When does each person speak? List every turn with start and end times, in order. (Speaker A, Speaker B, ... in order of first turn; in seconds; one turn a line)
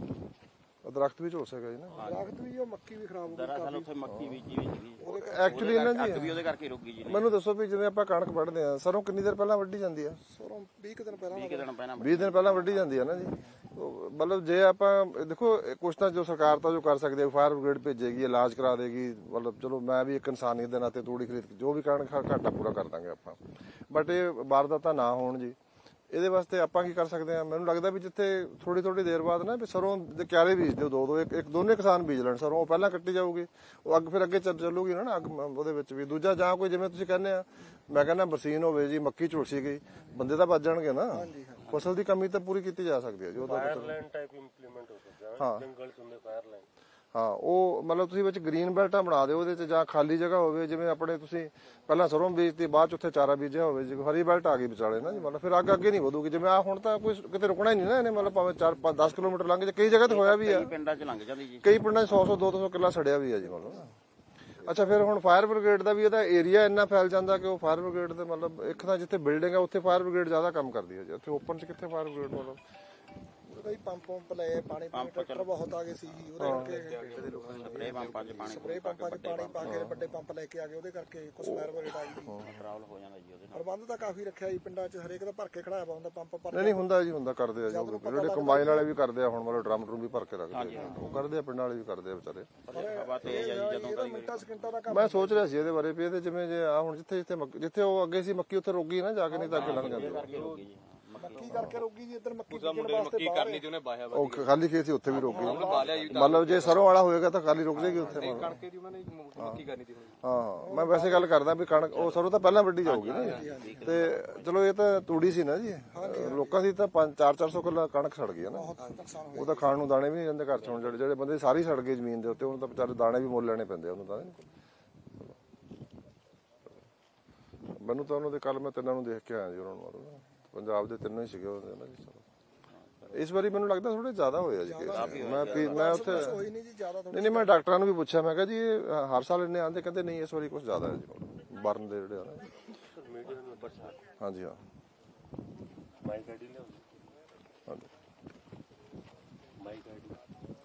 Speaker A: 0.8-2.1
Speaker B: 1.9-2.3
Speaker C: 2.0-3.9
Speaker B: 3.3-7.3
Speaker A: 4.0-4.4
Speaker C: 5.0-5.8
Speaker A: 5.0-6.4
Speaker A: 7.0-10.2
Speaker C: 10.2-11.7
Speaker B: 11.2-13.0
Speaker A: 12.0-25.6
Speaker A: 26.1-44.0
Speaker C: 41.1-41.6
Speaker D: 43.4-46.7
Speaker A: 45.4-45.7
Speaker A: 47.1-60.7
Speaker B: 59.9-62.5
Speaker A: 61.6-63.9
Speaker A: 64.6-72.6
Speaker C: 73.5-82.4
Speaker B: 74.9-75.5
Speaker B: 76.1-76.6
Speaker A: 76.4-76.7
Speaker E: 76.6-78.6
Speaker B: 77.5-79.8
Speaker A: 79.6-79.9
Speaker A: 81.4-82.5
Speaker B: 82.4-83.6
Speaker C: 83.5-86.9
Speaker A: 86.5-92.6
Speaker C: 87.6-88.9
Speaker B: 90.5-91.1
Speaker B: 92.7-94.8
Speaker C: 92.7-95.6
Speaker A: 94.9-100.4
Speaker B: 99.4-101.8
Speaker E: 99.5-100.7
Speaker C: 101.2-103.7
Speaker A: 101.5-101.8
Speaker E: 102.5-104.6
Speaker A: 104.1-108.6
Speaker C: 105.1-106.1
Speaker E: 105.2-106.9
Speaker B: 105.7-106.3
Speaker B: 107.7-108.5
Speaker E: 107.8-110.2
Speaker A: 109.4-109.6
Speaker A: 110.2-118.8
Speaker C: 110.6-111.3
Speaker B: 111.9-112.2
Speaker B: 112.8-114.5
Speaker C: 113.0-114.0
Speaker C: 115.9-116.6
Speaker C: 118.5-119.7
Speaker A: 119.3-124.4
Speaker B: 120.6-120.9
Speaker A: 127.8-132.2
Speaker A: 133.1-136.4
Speaker C: 134.6-137.7
Speaker B: 134.9-136.4
Speaker A: 137.1-142.7
Speaker D: 142.9-144.2
Speaker A: 144.2-144.6
Speaker D: 146.0-147.0
Speaker D: 149.6-150.2